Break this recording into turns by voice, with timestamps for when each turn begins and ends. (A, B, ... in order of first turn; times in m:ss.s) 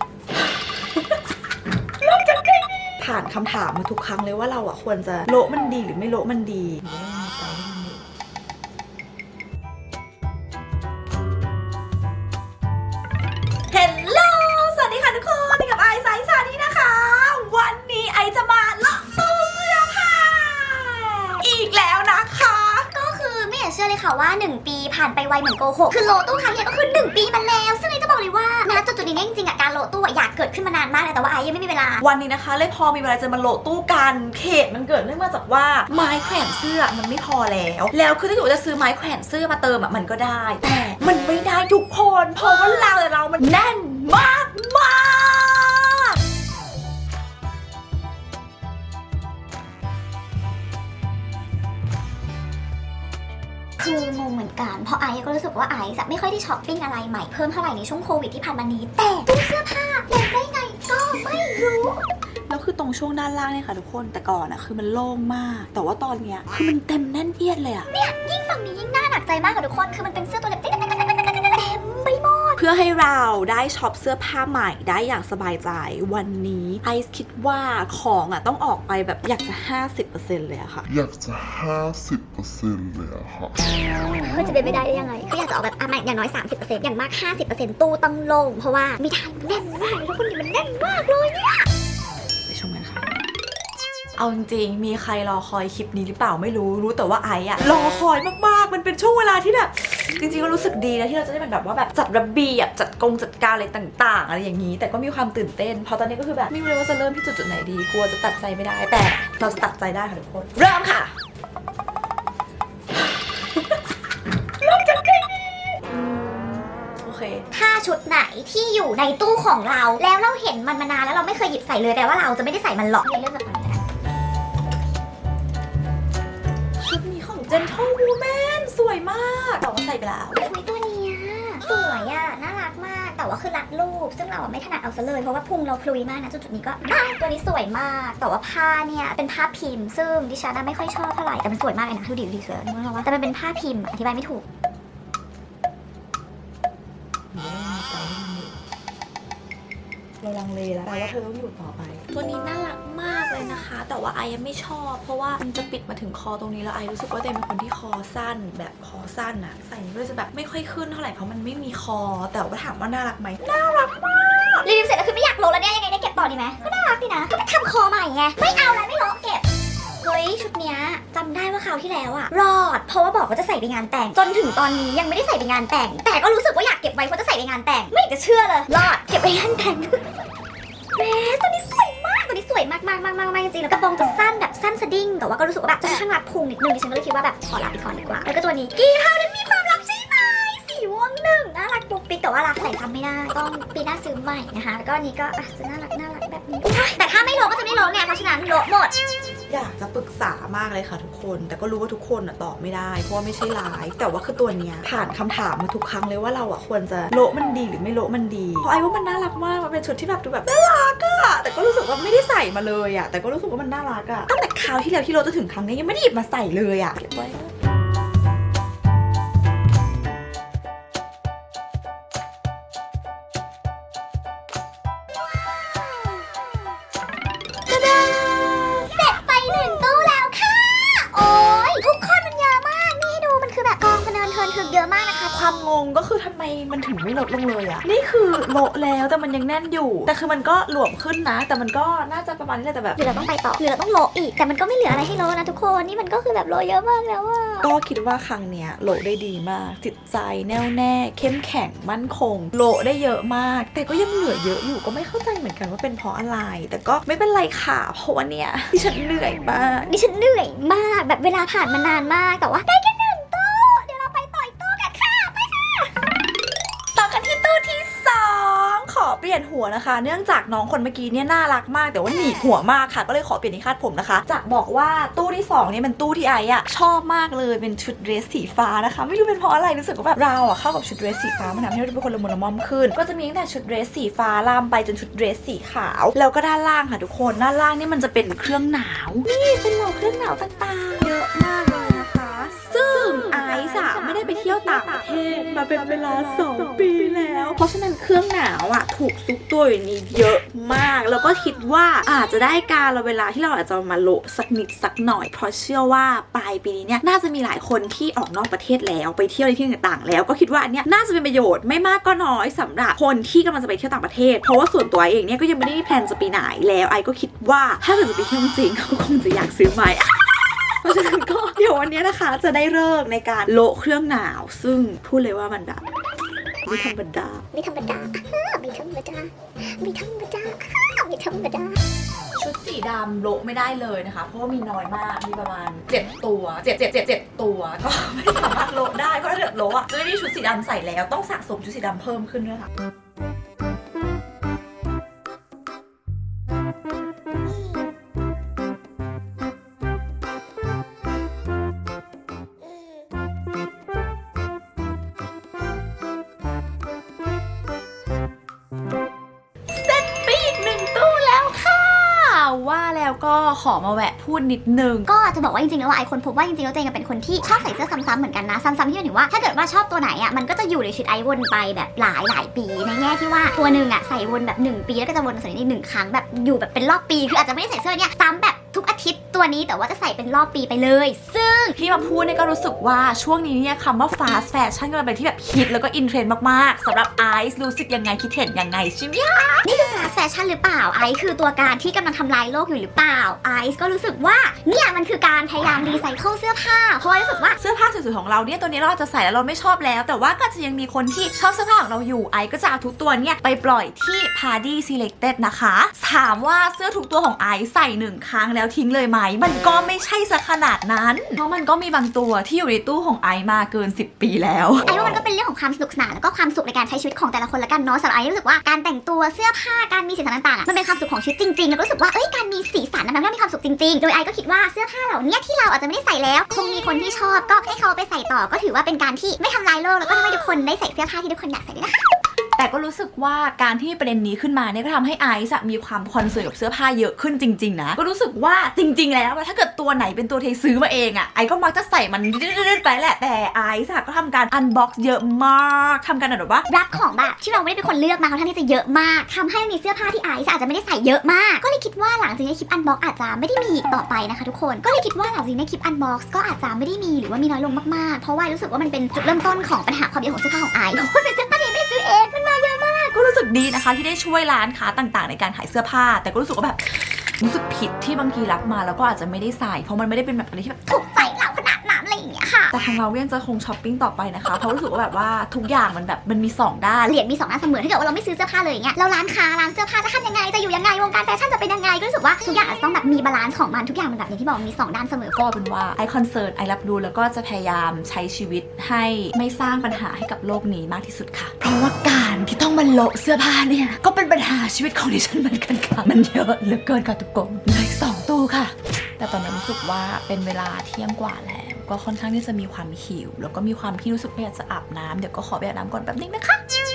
0:02.0-0:08.0 A
0:13.7-0:22.9 A
0:22.9-0:32.0 B
0:32.0-0:46.1 A
0:53.8-1:02.0 B
1:02.5-1:07.9 A
1:07.9-1:12.6 B
1:12.6-1:20.9 A
1:20.9-1:23.6 C
1:24.2-1:31.6 B
1:32.5-1:33.0 A
1:34.2-1:51.1 A
1:54.6-1:57.4 A
1:57.5-2:03.8 B
2:06.8-2:10.4 A
2:10.3-2:24.4 B
2:27.3-2:28.6 A
2:30.2-2:44.6 A
2:44.6-2:49.4 B
2:50.0-3:00.0 B
3:00.9-3:18.9 B
3:19.5-3:37.5 A
3:47.7-3:48.7 A
3:48.8-3:55.4 B
3:55.3-4:03.0 A
4:03.0-4:07.7 B
4:07.6-4:19.9 A
4:19.9-4:25.9 B
4:26.9-5:25.8 A
5:26.6-5:27.4 A
5:27.5-5:31.8 B
5:32.3-5:42.7 A
5:59.7-6:05.1 A
6:05.1-6:21.8 B
6:21.8-6:29.8 A
6:29.6-6:37.6 B
6:37.6-6:55.1 A
6:54.8-7:12.0 B
7:12.6-7:26.7 A
7:26.7-7:42.3 B
7:42.3-7:50.8 A
7:50.9-7:52.7 B
7:52.7-7:57.1 A
7:57.1-8:05.4 B
8:05.3-8:26.6 A